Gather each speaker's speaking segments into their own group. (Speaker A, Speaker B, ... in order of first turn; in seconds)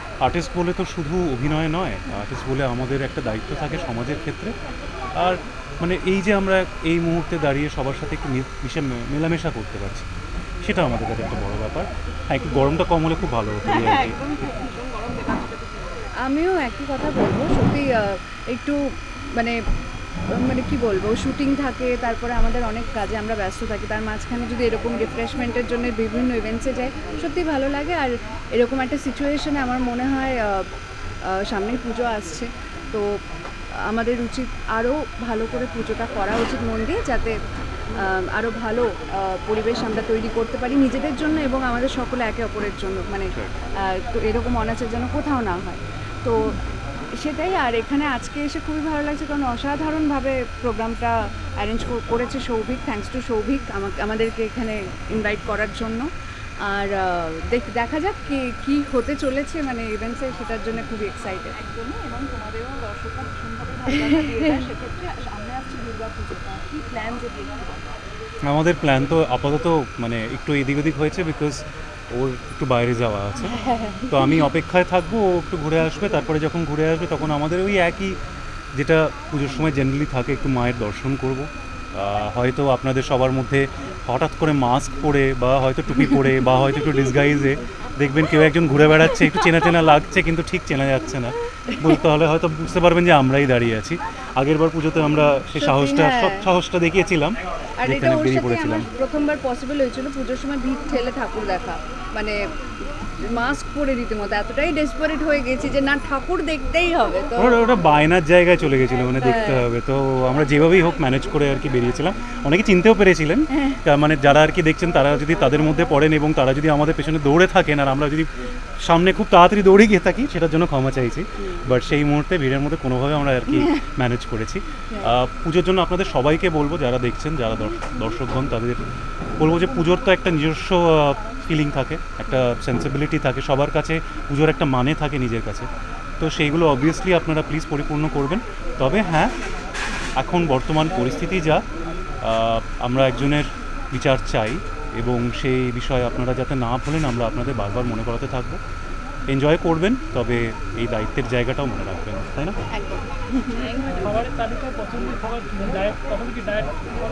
Speaker A: 0.2-4.5, 5.2-10.1, 10.6-14.2, 43.3-43.6, 68.4-78.2, 78.8-98.9, 107.4-128.8, 129.4-135.7, 136.2-139.3, 140.2-141.6, 142.2-148.6, 149.3-152.6
Speaker B: 13.6-16.1, 61.5-67.9
Speaker C: 16.2-18.8, 20.4-30.6, 31.3-33.0, 33.9-37.4, 37.9-43.3, 43.8-46.6, 47.2-56.1, 56.6-61.6, 64.0-64.6, 73.5-74.5, 95.6-96.5, 97.8-102.4, 103.0-107.6, 109.1-109.7, 123.5-123.8, 152.7-153.8
Speaker D: 154.1-156.9